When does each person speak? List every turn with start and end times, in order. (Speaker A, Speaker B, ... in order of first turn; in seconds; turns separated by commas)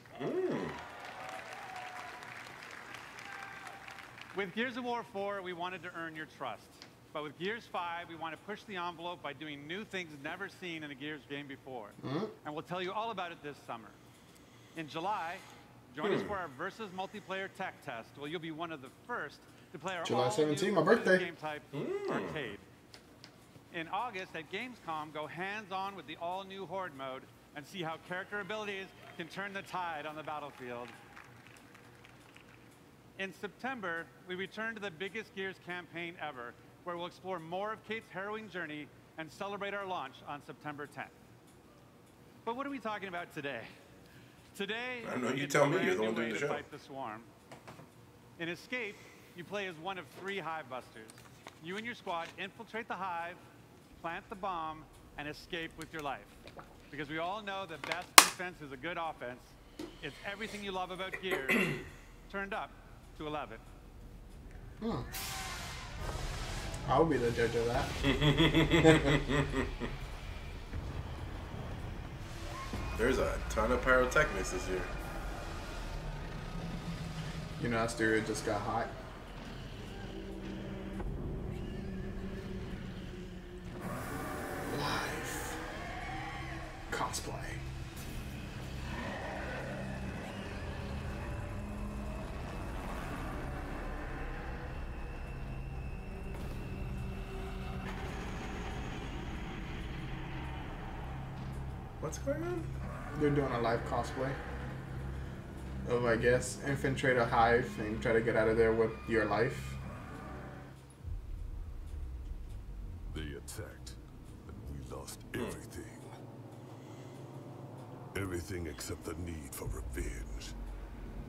Speaker A: 0.2-0.8, Speaker B: 4.3-14.0, Speaker C: 12.0-12.3, Speaker B: 14.8-22.6, Speaker A: 16.0-16.4, Speaker C: 20.0-21.3, Speaker A: 21.7-22.5, Speaker B: 23.7-31.0, Speaker B: 33.2-41.1, Speaker B: 42.4-43.7, Speaker B: 44.5-47.3, Speaker A: 45.0-46.6, Speaker B: 48.4-53.4, Speaker B: 54.0-56.4, Speaker B: 56.9-63.6, Speaker C: 64.8-65.1, Speaker C: 66.9-68.0, Speaker A: 68.0-69.7, Speaker C: 68.8-69.1, Speaker A: 73.0-74.9, Speaker C: 77.6-78.9, Speaker C: 84.7-85.6, Speaker C: 86.9-87.6, Speaker A: 102.0-102.7, Speaker C: 103.2-104.4, Speaker C: 105.8-109.8, Speaker D: 113.1-116.1, Speaker D: 118.1-120.5